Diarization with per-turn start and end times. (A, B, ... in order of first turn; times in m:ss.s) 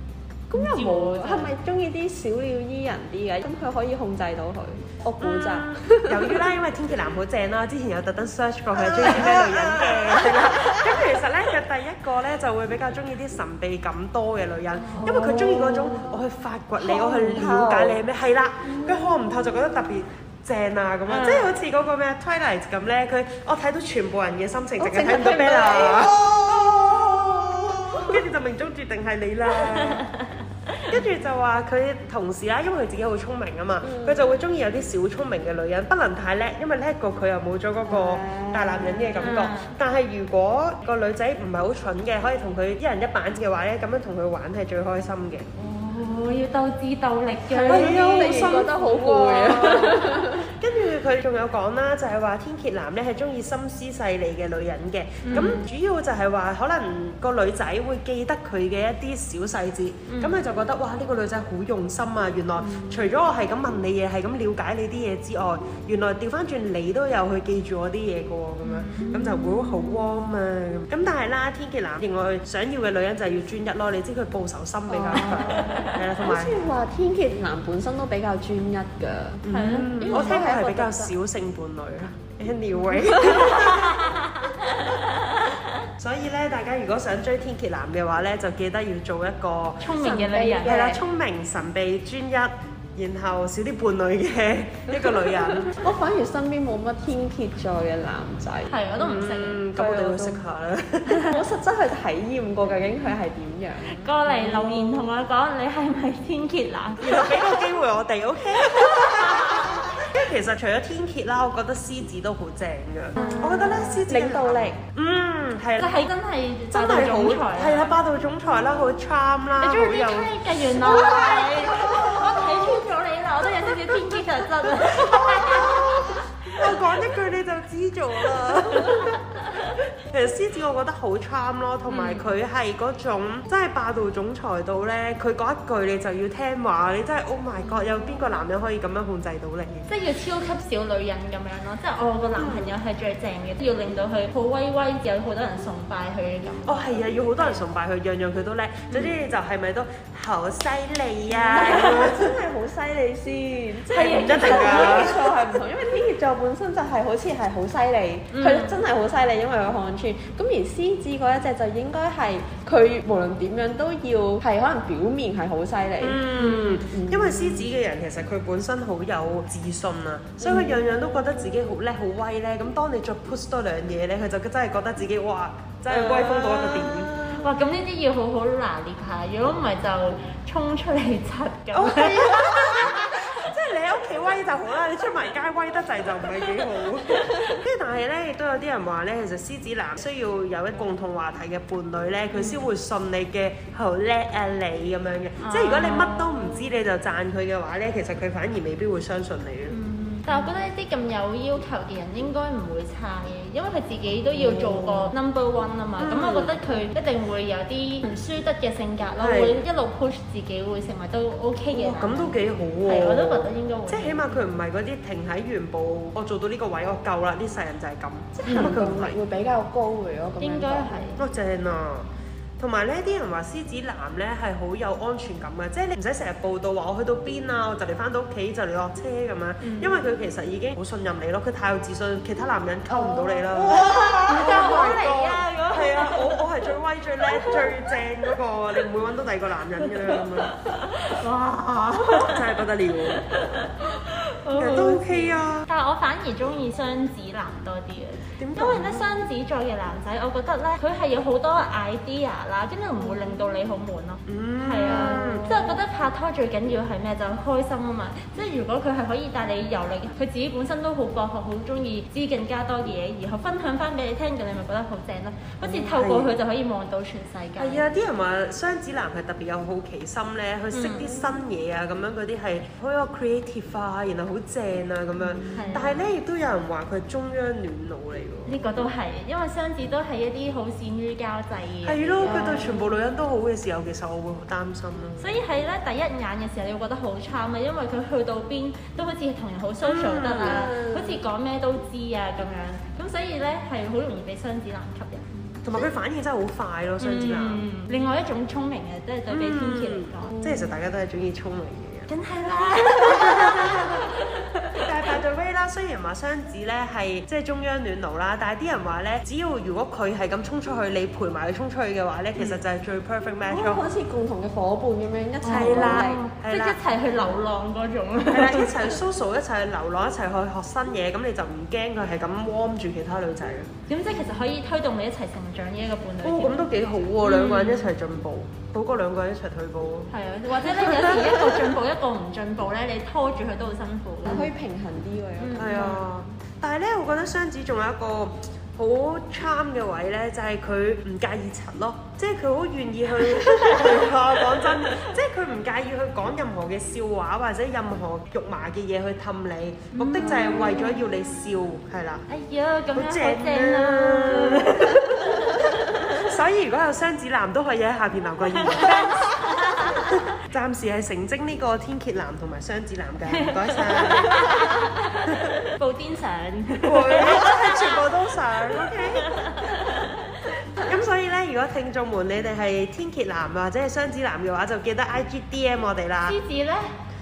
0:00.5-0:06.5 A
0:00.5-0:01.5 B
0:05.2-0:26.9 C
0:08.8-0:11.0 A
0:14.9-0:16.0 A
0:16.8-0:18.0 A
0:21.1-0:21.5 B
0:24.8-0:28.2 A
0:27.9-0:30.0 C
0:29.7-0:30.9 B
0:30.9-0:45.4 C
0:33.8-0:34.3 A
0:37.9-0:39.2 A
0:39.2-0:39.8 B
0:45.6-0:48.8 B
0:47.5-0:50.5 A
0:47.6-1:16.6 C
0:55.2-0:55.6 B
1:00.1-1:00.4 B
1:08.6-1:10.1 B
1:14.9-1:19.5 A
1:15.3-1:16.0 B
1:19.4-1:24.1 C
1:19.5-1:20.4 B
1:20.0-1:21.1 A
1:23.2-1:25.8 B
1:26.0-1:29.9 C
1:29.8-1:30.8 B
1:29.9-1:31.0 A
1:30.6-1:35.7 C
1:34.9-1:38.9 A
1:38.7-1:39.6 B
1:39.0-1:41.3 C
1:39.7-1:40.4 A
1:41.1-1:45.1 A
1:43.8-1:47.2 B
1:47.0-1:56.0 C
1:47.2-1:47.5 A
1:48.7-1:49.9 B
1:53.2-1:53.7 B
1:53.2-1:54.8 A
1:55.8-1:58.0 B
1:56.7-2:02.8 C
1:59.6-2:06.6 B
2:00.9-2:01.9 A
2:03.7-2:09.2 C
2:10.1-2:19.9 C
2:11.9-2:12.3 B
2:19.9-2:27.6 B
2:22.4-2:22.8 C
2:26.6-2:32.3 C
2:31.4-2:47.6 A
2:33.9-2:35.1 B
2:33.9-2:35.3 C
2:38.3-2:38.8 B
2:46.0-2:57.4 C
2:50.4-2:50.8 A
2:56.1-2:56.8 A
2:57.2-3:02.9 B
3:01.7-3:19.8 C
3:12.3-3:12.6 B
3:15.4-3:16.7 B
3:19.7-3:34.5 B
3:24.3-3:25.1 C
3:26.0-3:26.6 C
3:29.2-3:29.6 C
3:31.7-3:39.2 C
3:38.3-3:41.1 A
3:40.4-3:41.2 B
3:41.2-4:00.6 C
3:49.6-3:50.0 B
3:52.9-3:53.8 A
3:53.6-3:56.5 B
3:57.2-3:58.4 B
3:59.8-4:27.8 B
4:02.0-4:03.2 C
4:04.5-4:05.7 C
4:08.4-4:09.2 C
4:14.3-4:15.6 C
4:14.9-4:15.8 A
4:25.6-4:26.4 C
4:27.6-4:38.6 C
4:30.7-4:31.1 B
4:35.5-4:36.0 B
4:38.4-4:42.9 B
4:41.8-4:45.4 C
4:45.2-4:55.9 B
4:49.8-4:50.7 C
4:50.5-4:51.2 A
4:55.6-4:57.6 C
4:57.0-5:00.5 B
4:59.3-5:02.1 C
5:02.1-5:04.9 B
5:02.7-5:04.1 C
5:04.8-5:13.9 C
5:13.4-5:16.2 A
5:15.4-5:19.0 B
5:15.4-5:16.8 C
5:18.3-5:23.7 C
5:23.9-5:26.6 B
5:26.2-5:31.8 C
5:27.2-5:27.9 B
5:30.1-5:34.5 B
5:34.2-5:36.0 A
5:35.4-5:36.0 B
5:35.6-5:52.2 C
5:43.2-5:45.1 B
5:49.9-5:51.1 B
5:52.3-5:56.3 B
5:52.9-6:04.7 C
5:58.5-6:00.1 B
6:03.3-6:08.0 B
6:06.8-6:09.9 C
6:08.6-6:10.7 B
6:10.8-6:16.4 C
6:16.2-6:16.9 B